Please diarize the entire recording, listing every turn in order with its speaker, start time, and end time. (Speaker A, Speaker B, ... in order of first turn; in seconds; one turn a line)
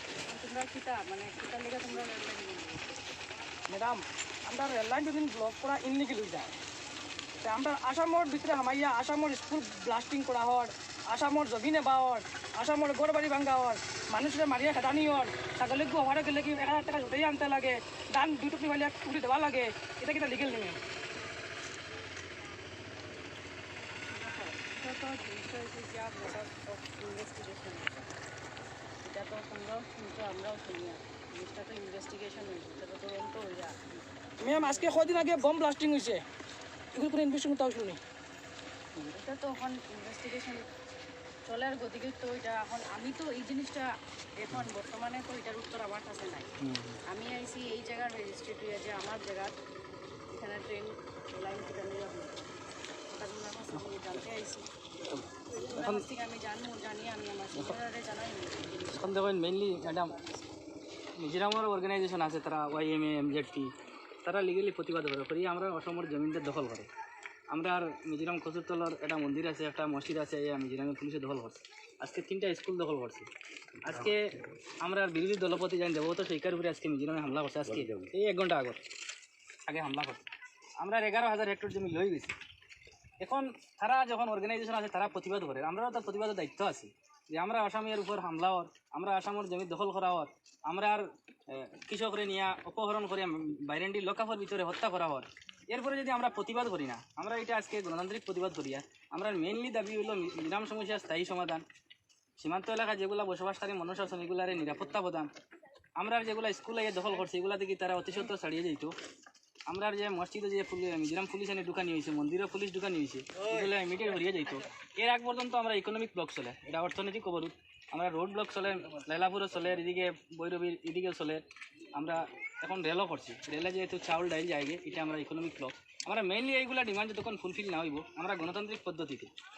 Speaker A: 0.2-3.1
Speaker B: 3.7-6.6
Speaker B: 7.4-20.8
Speaker A: 24.1-28.1
Speaker A: 29.0-33.7
Speaker B: 34.4-36.2
Speaker A: 34.5-35.6
Speaker B: 36.9-38.0
Speaker A: 39.0-40.6
Speaker A: 41.5-43.9
Speaker A: 44.4-46.5
Speaker C: 46.6-47.0
Speaker A: 47.1-49.5
Speaker A: 50.3-52.5
Speaker A: 53.1-54.6
Speaker C: 55.1-56.0
Speaker A: 55.5-60.5
Speaker C: 58.9-60.1
Speaker C: 61.2-66.9
Speaker C: 67.5-73.3
Speaker C: 73.8-74.2
Speaker C: 74.8-78.8
Speaker C: 79.7-80.2
Speaker C: 80.8-82.3
Speaker C: 83.2-101.6
Speaker C: 102.4-105.3
Speaker C: 106.0-108.9
Speaker C: 109.7-129.3